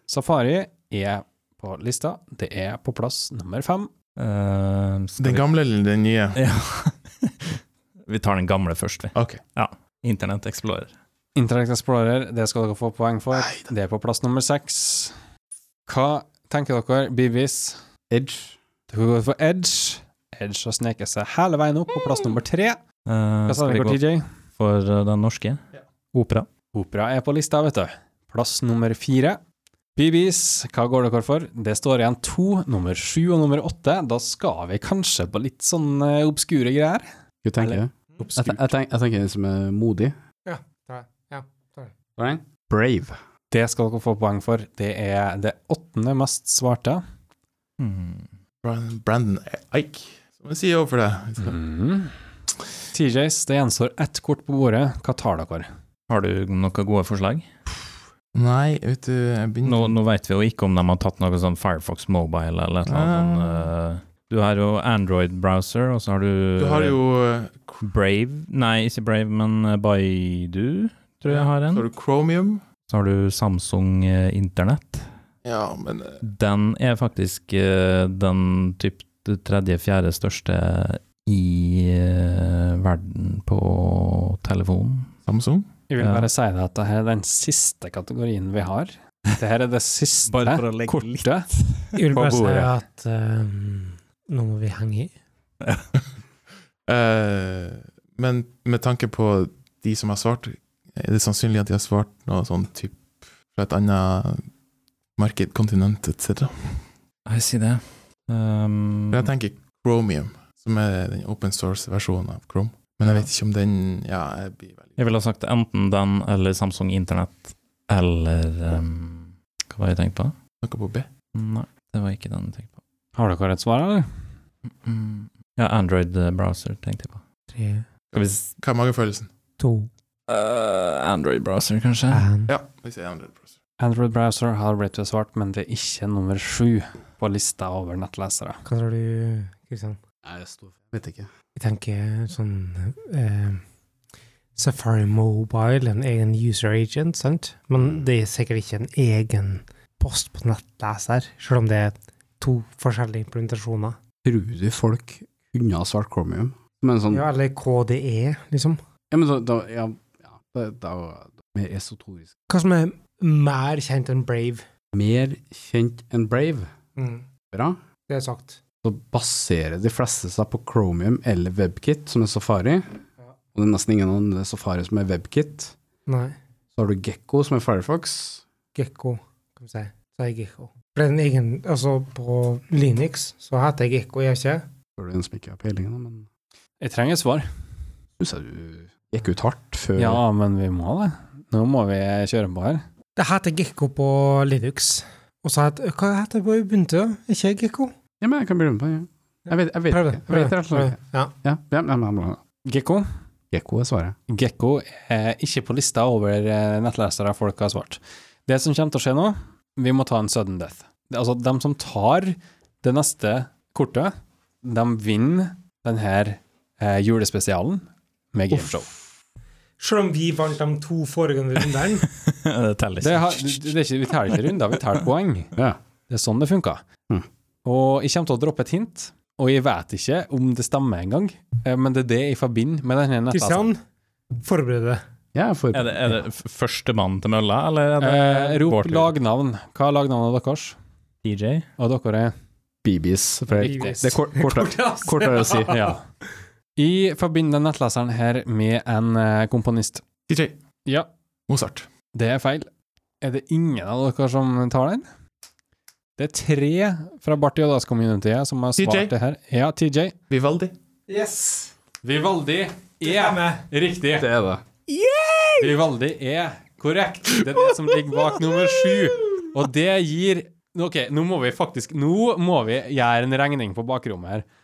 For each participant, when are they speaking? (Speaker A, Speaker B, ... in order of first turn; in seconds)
Speaker A: 0.1-3.9, 11.3-15.2, 15.9-17.8, 18.9-22.8, 23.5-24.3, 26.7-29.4, 30.0-37.1, 37.6-38.7, 43.5-47.0, 51.4-52.1, 52.9-55.7, 85.9-91.5, 92.1-92.7, 123.2-124.3, 133.8-138.6, 186.8-187.5, 190.0-192.8, 202.7-203.1, 204.3-218.9, 223.0-225.5, 226.1-226.8, 227.7-233.7, 238.0-240.8, 241.8-242.3, 243.6-244.7, 245.6-246.0, 246.8-250.0, 252.1-252.7, 253.2-255.1, 256.2-260.1, 262.0-264.3, 265.6-274.5
Speaker B: 4.2-5.5, 6.3-10.9, 23.1-24.0, 24.6-25.6, 26.1-26.5, 47.8-48.3, 56.1-57.5, 59.6-67.0, 67.8-71.9, 72.9-75.1, 76.2-85.2, 86.0-86.3, 90.3-92.0, 95.6-95.9, 107.3-109.3, 115.0-120.3, 121.3-122.7, 124.8-127.2, 128.1-128.6, 130.3-132.3, 222.1-223.7, 235.7-239.1, 241.2-241.7
Speaker C: 5.2-6.4, 9.2-9.4, 13.4-13.7, 48.6-51.6, 58.3-60.0, 62.9-63.7, 66.6-67.8, 71.3-72.6, 75.5-76.2, 85.3-85.7, 96.9-104.5, 105.2-106.9, 109.1-115.1, 120.6-121.1, 128.2-129.3, 132.5-133.5, 250.3-250.6, 251.5-251.9, 258.8-259.1, 260.3-260.7
Speaker D: 18.1-18.6, 37.4-40.1, 42.2-43.1, 140.2-141.3, 154.2-157.3, 159.1-162.3, 164.9-166.7, 167.5-167.8, 168.8-173.0, 173.5-175.7, 176.8-178.4, 185.0-186.3, 188.2-190.2, 198.2-202.4, 203.5-204.2, 235.3-236.2, 242.8-245.8, 264.2-264.6
Speaker E: 40.5-41.9, 92.0-95.2, 127.5-127.9, 129.6-129.9, 132.1-132.5, 138.7-140.0, 141.6-143.6, 144.6-154.0, 157.1-158.8, 162.5-164.7, 167.0-167.3, 168.1-168.6, 176.1-176.4, 178.7-184.7, 193.2-197.9, 199.5-201.3, 219.8-222.1, 233.3-233.8, 234.4-235.0, 243.6-245.7, 261.1-261.7, 263.0-263.6, 264.9-265.8